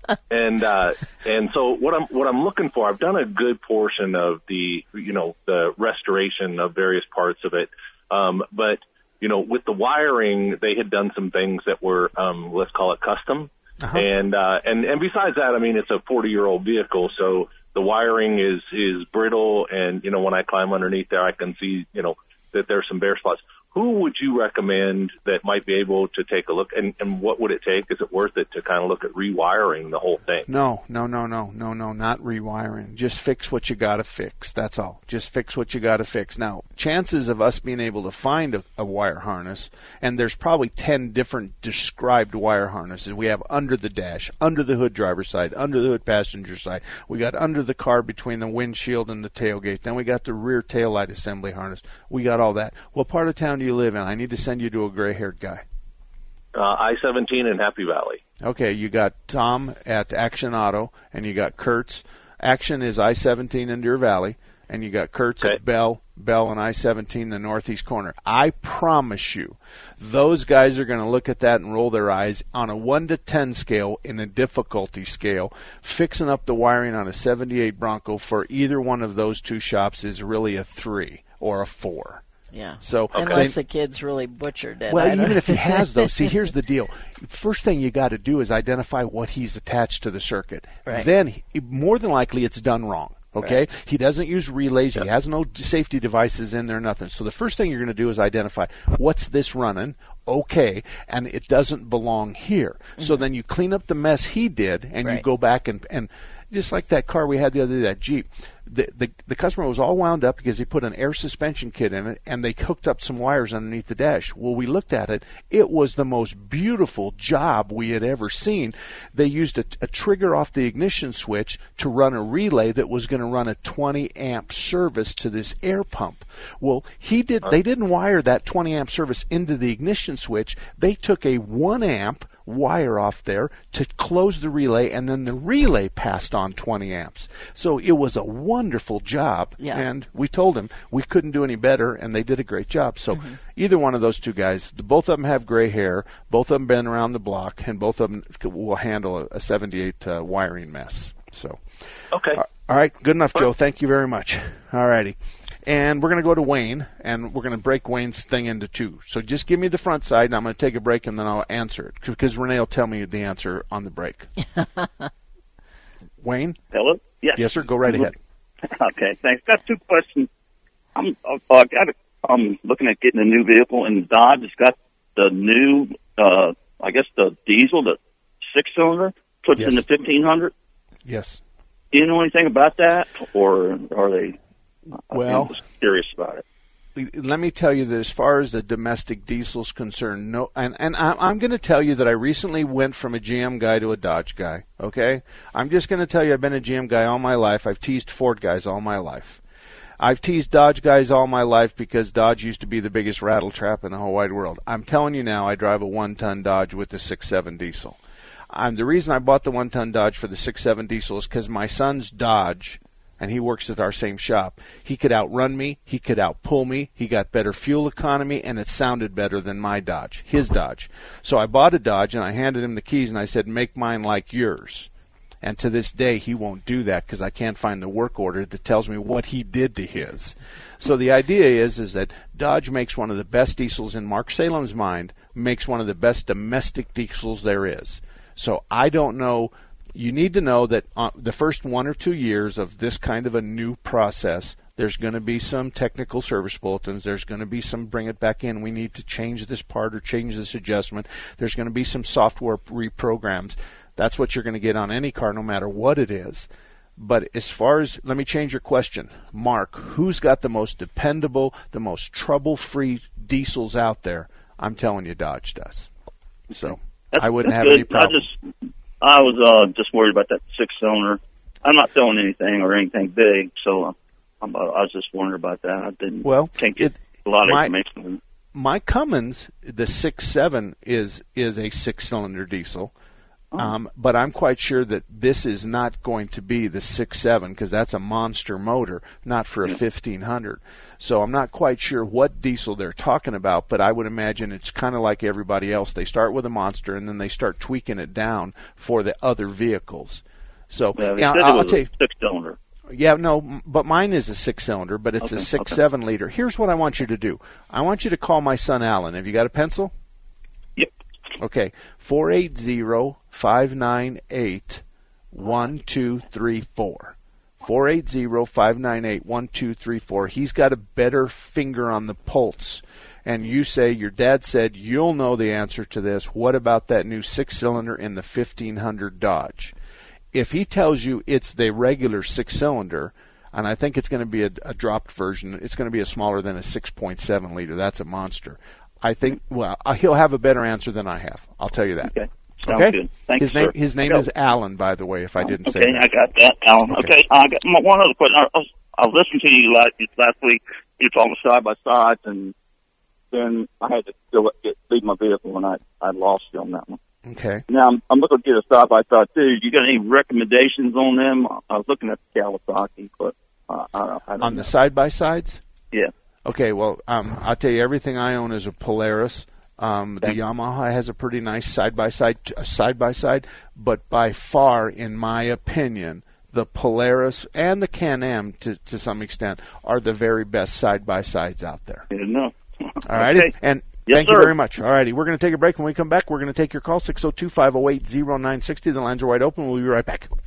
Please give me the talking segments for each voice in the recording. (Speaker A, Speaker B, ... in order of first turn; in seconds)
Speaker A: 0.3-30.5, 56.5-58.2, 83.1-83.4, 152.1-152.4
Speaker B: 13.8-14.1, 30.5-55.6, 58.4-82.2, 82.8-83.5, 84.9-151.6, 152.3-164.3, 166.2-166.6, 167.3-168.2, 179.6-179.8, 181.1-181.4, 185.1-185.6, 186.9-199.4, 200.0-208.0, 208.5-224.9, 225.4-265.9, 266.5-268.3, 276.2-277.7, 278.5-282.9, 283.6-301.9, 302.9-309.9, 311.4-329.7, 330.3-342.1, 342.7-346.1, 357.2-357.6, 364.4-365.6, 366.4-382.1, 383.1-390.3
Speaker C: 82.5-86.3, 103.0-103.2, 139.6-139.8, 164.4-165.1
Speaker D: 166.7-168.1, 168.7-170.3, 170.9-178.0, 178.5-180.5, 181.9-184.4, 185.1-186.4, 267.1-268.3, 269.0-278.2, 300.9-302.6, 305.2-305.8, 342.0-344.3, 345.4-352.5, 353.3-357.0, 357.7-364.7, 382.1-383.5, 384.1-384.6